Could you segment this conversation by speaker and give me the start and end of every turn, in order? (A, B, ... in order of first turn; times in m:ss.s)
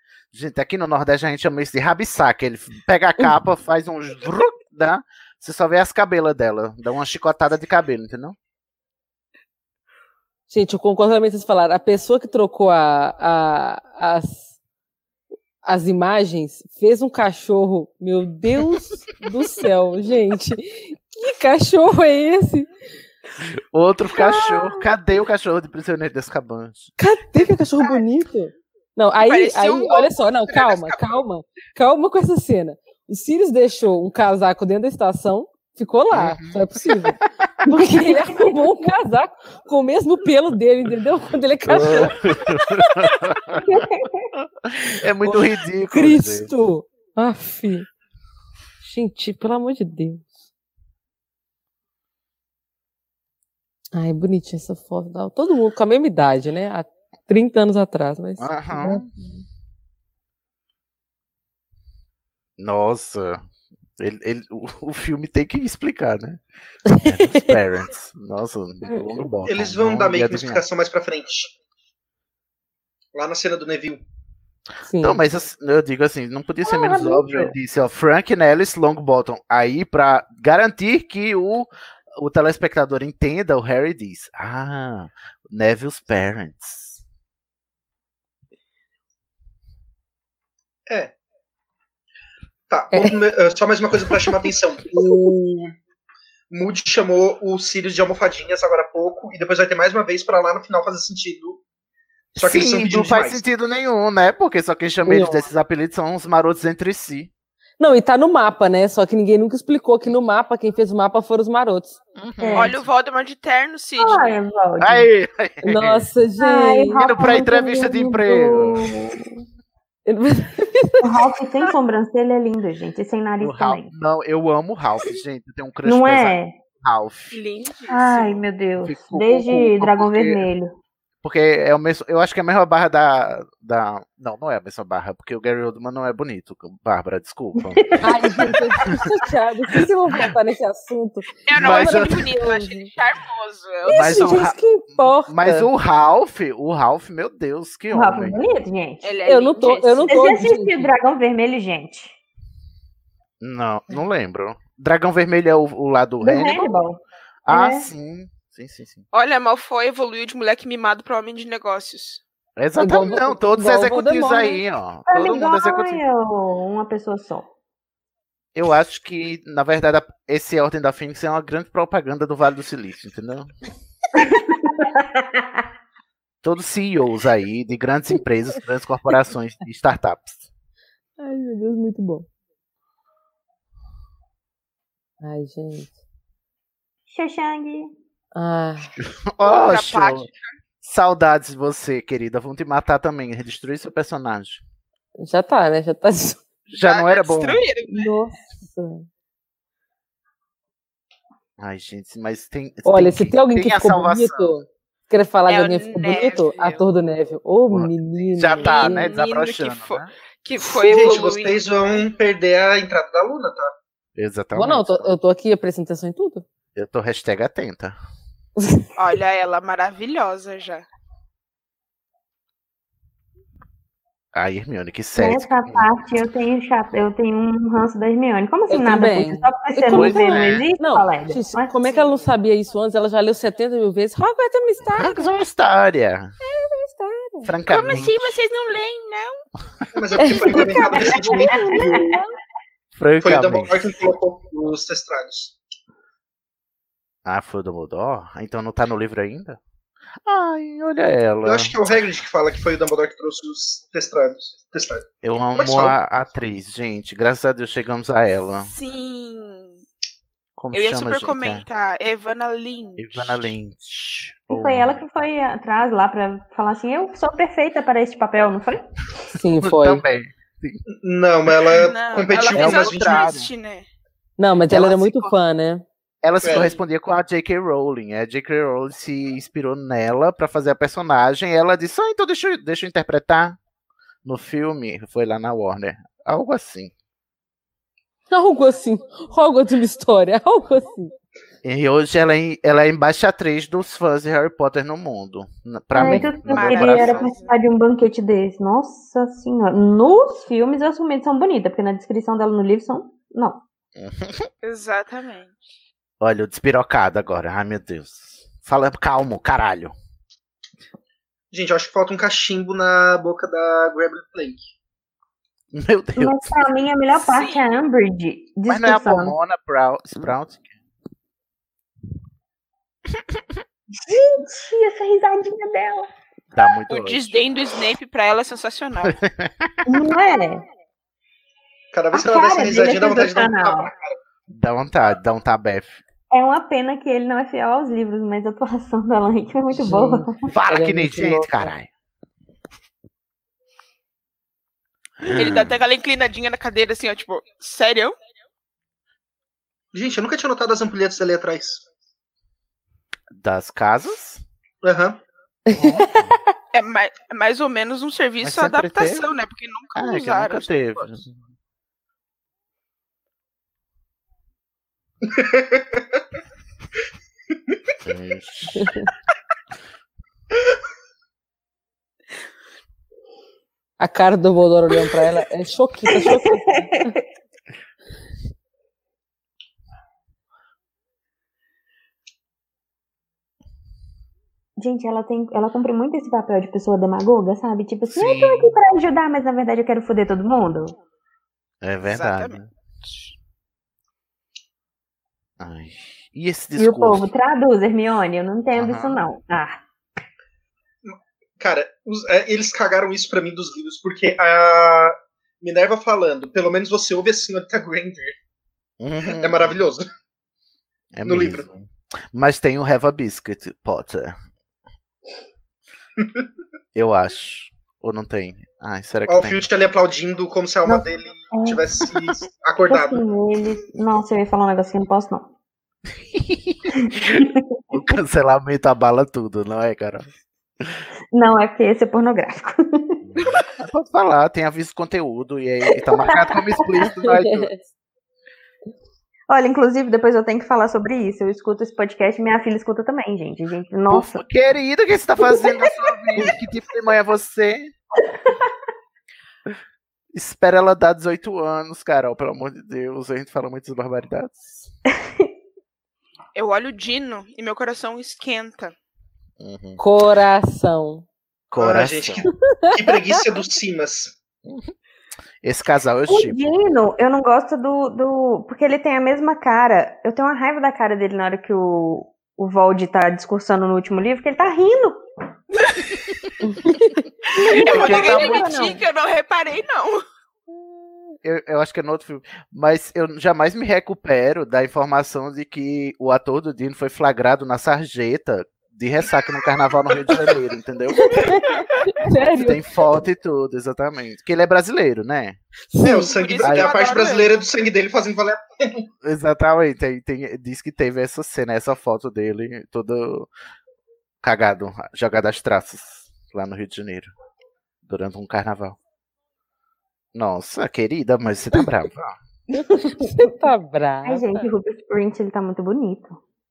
0:00.3-0:08.4 A
0:10.5-0:14.6 B
0:15.6-0:22.7 B
0:23.4-0:26.9 A
0:27.0-0:43.1 B
0:29.2-0:31.0 C
0:36.1-0:37.1 A
0:41.6-0:43.8 A
0:43.6-0:44.3 D
0:44.4-0:46.5 A
0:45.2-0:47.9 B
0:48.8-0:50.3 B
0:53.9-0:59.4 B
0:58.4-0:59.1 A
1:02.6-1:03.4 A
1:04.0-1:06.4 A
1:06.9-1:07.5 B
1:07.0-1:10.6 A
1:09.4-1:11.5 E
1:13.1-1:14.0 E
1:14.8-1:15.2 B
1:15.0-1:27.0 A
1:16.6-1:17.5 D
1:30.9-1:31.1 E
1:32.7-1:35.7 E
1:32.9-1:33.2 B
1:35.0-1:35.2 B
1:36.5-1:41.6 E
1:42.3-1:43.4 E
1:42.4-1:47.3 A
1:45.0-1:45.5 B
1:47.8-1:52.0 B
1:52.1-1:52.8 A
1:52.4-1:52.7 D
1:52.5-1:54.4 C
1:54.0-1:55.1 D
1:54.8-1:56.1 A
1:55.6-1:57.0 B
1:56.4-1:59.3 D
1:57.0-1:59.1 A
2:00.0-2:01.2 B
2:01.0-2:03.9 D
2:03.4-2:07.4 A
2:05.8-2:06.6 D
2:07.3-2:08.4 C
2:07.9-2:10.7 D
2:08.8-2:10.4 A
2:11.2-2:19.1 A
2:17.6-2:18.5 D
2:18.0-2:22.9 B
2:21.4-2:24.2 C
2:21.5-2:22.4 A
2:23.8-2:25.7 B
2:23.9-2:28.4 A
2:27.9-2:29.0 D
2:29.0-2:30.4 C
2:29.2-2:30.9 B
2:30.1-2:32.2 D
2:33.4-2:36.7 A
2:36.2-2:37.9 D
2:37.4-2:39.0 A
2:39.1-2:42.2 C
2:42.6-2:46.0 A
2:42.8-2:44.6 B
2:45.1-2:47.5 D
2:48.5-2:53.5 A
2:54.2-2:55.6 D
2:56.4-3:00.5 A
3:01.2-3:02.3 B
3:05.2-3:05.9 B
3:07.1-3:07.9 D
3:08.3-3:08.9 B
3:09.0-3:10.3 A
3:09.4-3:10.5 C
3:10.8-3:14.6 A
3:15.2-3:16.4 B
3:16.7-3:18.1 C
3:16.7-3:17.6 A
3:17.9-3:19.0 B
3:21.6-3:24.6 A
3:22.8-3:29.1 B
3:25.5-3:26.8 C
3:27.7-3:30.1 A
3:28.6-3:31.6 C
3:30.7-3:33.7 E
3:34.2-3:35.2 A
3:34.5-3:36.4 B
3:36.7-3:38.0 A
3:39.0-3:40.8 C
3:44.3-3:45.9 A
3:45.2-3:51.7 D
3:48.7-3:55.3 B
3:49.9-3:50.7 A
3:51.8-3:52.3 C
3:54.9-3:56.3 A
3:56.5-3:57.5 B
3:57.4-3:58.3 A
3:57.7-3:59.4 C
3:59.9-4:02.0 E
4:00.2-4:02.3 B
4:00.5-4:02.2 D
4:02.9-4:04.0 A
4:03.2-4:05.6 E
4:07.2-4:09.6 A
4:10.2-4:11.8 A
4:11.4-4:15.9 E
4:15.2-4:18.7 A
4:18.6-4:19.8 C
4:20.6-4:21.6 A
4:20.7-4:23.5 C
4:23.0-4:25.0 A
4:24.5-4:28.9 D
4:29.3-4:30.0 B
4:29.6-4:30.8 A
4:30.9-4:33.4 E
4:31.7-4:33.9 C
4:32.5-4:33.5 A
4:34.4-4:35.8 B
4:34.7-4:35.3 A
4:36.2-4:43.6 A
4:36.4-4:36.8 E
4:44.2-4:46.9 A
4:48.3-4:51.1 B
4:51.6-4:57.3 A
4:55.9-5:03.6 D
4:56.0-4:57.6 C
5:04.0-5:04.5 A
5:04.6-5:05.5 C
5:06.2-5:09.9 A
5:11.5-5:14.7 E
5:15.7-5:16.6 A
5:16.2-5:19.3 D
5:17.2-5:17.6 C
5:18.7-5:20.7 A
5:24.0-5:26.1 D
5:26.5-5:27.4 A
5:26.9-5:29.1 C
5:29.0-5:30.0 A
5:29.8-5:30.6 D
5:31.9-5:34.1 E
5:32.1-5:33.9 D
5:34.5-5:36.0 A
5:36.3-5:40.5 D
5:39.7-5:41.7 B
5:40.5-5:41.9 A
5:45.2-5:45.8 A
5:45.3-5:48.1 C
5:49.9-5:51.8 E
5:53.3-5:54.4 A
5:54.8-5:55.2 E
5:55.7-5:56.0 B
5:55.7-5:56.3 A
5:56.7-6:01.0 C
5:58.4-5:59.2 A
5:59.9-6:01.4 A
6:05.2-6:06.2 E
6:08.0-6:08.9 A
6:08.8-6:09.1 B
6:14.0-6:17.1 B
6:16.1-6:16.6 D
6:24.8-6:30.9 D
6:28.1-6:28.8 A
6:31.8-6:32.7 A
6:32.1-6:32.6 C
6:35.6-6:37.3 A
6:36.8-6:39.8 D
6:38.7-6:39.2 A
6:41.0-6:48.3 E
6:49.0-6:49.8 A
6:49.2-6:50.0 E
6:51.1-6:54.4 A
6:51.2-6:51.7 E
6:56.9-6:59.6 A
6:59.3-7:03.2 E
7:00.8-7:02.1 D
7:02.9-7:05.5 D
7:06.3-7:10.3 A
7:07.0-7:07.6 D
7:11.3-7:13.2 D
7:13.3-7:17.8 A
7:16.1-7:16.6 D
7:17.2-7:17.7 B
7:19.5-7:24.4 D
7:24.1-7:27.9 A
7:30.3-7:34.9 A
7:36.5-7:38.9 C
7:39.6-7:40.0 A
7:40.0-7:41.2 B
7:41.7-7:42.5 A
7:41.8-7:44.3 E
7:42.7-7:43.2 B
7:44.6-7:44.9 A
7:45.6-7:46.8 A
7:46.3-7:55.2 D
7:56.6-7:57.2 B
7:57.5-7:59.0 D
7:57.5-8:00.2 C
7:57.8-7:58.7 A
8:01.4-8:11.6 A
8:11.2-8:12.8 B
8:12.6-8:15.6 A
8:15.9-8:16.3 B
8:16.0-8:19.0 E
8:16.3-8:17.5 C
8:16.6-8:16.9 A
8:19.2-8:23.5 A
8:24.4-8:27.3 A
8:28.0-8:29.0 A
8:30.3-8:32.4 A
8:32.8-8:34.7 B
8:34.2-8:36.4 D